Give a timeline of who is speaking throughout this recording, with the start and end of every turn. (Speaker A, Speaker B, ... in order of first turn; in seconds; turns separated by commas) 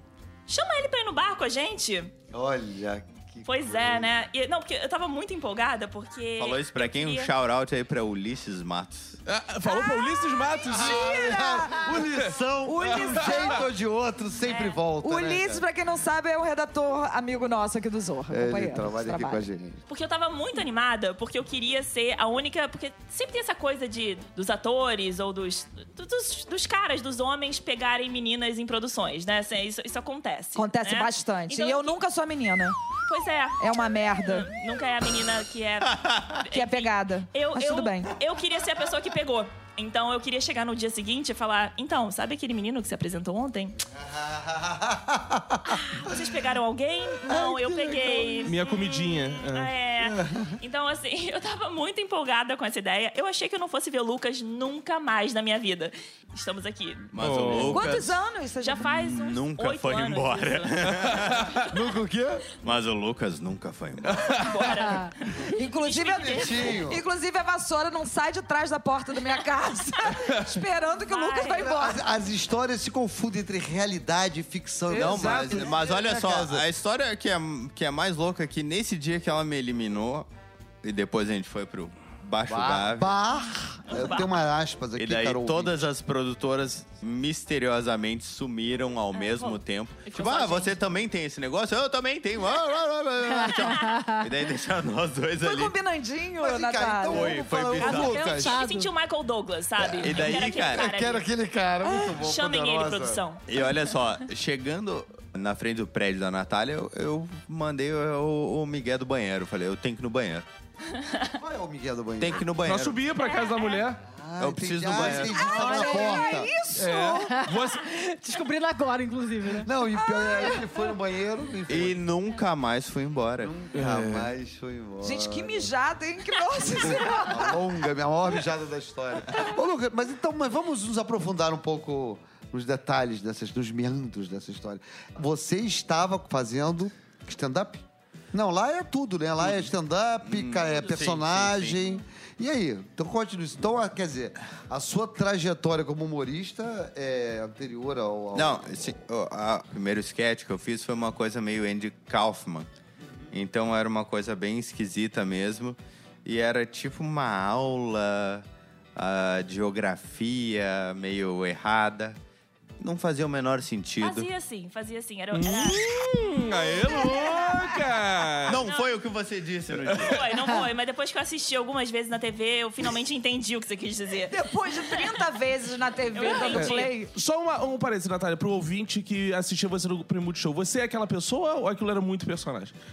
Speaker A: 0.5-2.1, Speaker B: 2.3-4.1, Speaker A: 3.4-7.3, Speaker C: 6.4-9.2, Speaker D: 9.2-11.2, Speaker E: 9.7-12.1, Speaker B: 10.7-15.6, Speaker D: 12.1-12.3, Speaker E: 12.6-13.7, Speaker D: 13.0-13.4, Speaker A: 14.4-14.8, Speaker E: 15.0-19.4, Speaker B: 18.3-19.8, Speaker A: 19.9-32.0, Speaker E: 30.6-32.8, Speaker A: 33.0-43.8, Speaker E: 33.6-34.5, Speaker C: 35.8-36.4, Speaker E: 36.5-38.1, Speaker B: 43.9-45.6, Speaker A: 45.6-57.1, Speaker B: 47.3-48.5, Speaker D: 48.4-49.7, Speaker B: 50.0-50.5, Speaker C: 57.1-58.2, Speaker D: 57.2-57.8, Speaker E: 57.7-58.9, Speaker A: 58.6-61.7, Speaker C: 58.9-61.7, Speaker B: 61.6-62.5, Speaker C: 62.6-64.4, Speaker D: 64.1-64.7, Speaker A: 64.3-66.8, Speaker E: 65.5-72.0, Speaker B: 66.1-67.0, Speaker A: 71.0-71.7, Speaker B: 71.5-76.7, Speaker C: 74.9-80.3, Speaker E: 74.9-75.8, Speaker C: 80.8-83.2, Speaker B: 82.5-85.9, Speaker A: 83.9-84.3, Speaker C: 85.0-95.8, Speaker A: 89.1-90.7, Speaker F: 93.4-94.2, Speaker E: 95.4-97.4, Speaker B: 96.4-98.6, Speaker C: 97.1-98.3, Speaker A: 97.8-101.2, Speaker F: 98.1-98.9, Speaker B: 99.8-103.2, Speaker C: 100.0-100.9, Speaker A: 102.0-103.7, Speaker C: 103.5-110.5, Speaker A: 110.9-111.3, Speaker B: 111.3-112.5, Speaker C: 112.2-113.0, Speaker D: 112.6-114.0, Speaker A: 113.2-113.8, Speaker B: 114.1-116.6, Speaker C: 114.4-115.8, Speaker E: 115.1-117.3, Speaker F: 115.6-119.7, Speaker D: 116.7-117.8, Speaker B: 119.6-122.0, Speaker E: 120.0-120.6, Speaker C: 121.7-123.5, Speaker B: 123.4-125.7, Speaker D: 123.7-124.3, Speaker E: 125.0-127.6, Speaker B: 126.7-148.9, Speaker C: 139.4-139.7, Speaker C: 140.2-141.8, Speaker C: 148.3-152.7, Speaker C: 153.3-158.4, Speaker C: 158.9-162.2, Speaker C: 162.8-164.3, Speaker A: 164.0-165.8, Speaker D: 165.3-168.6, Speaker E: 166.9-167.6, Speaker C: 168.4-170.3, Speaker A: 168.6-169.0, Speaker D: 169.7-170.2, Speaker A: 170.0-174.4, Speaker E: 174.3-177.1, Speaker A: 176.1-176.9, Speaker D: 176.5-182.7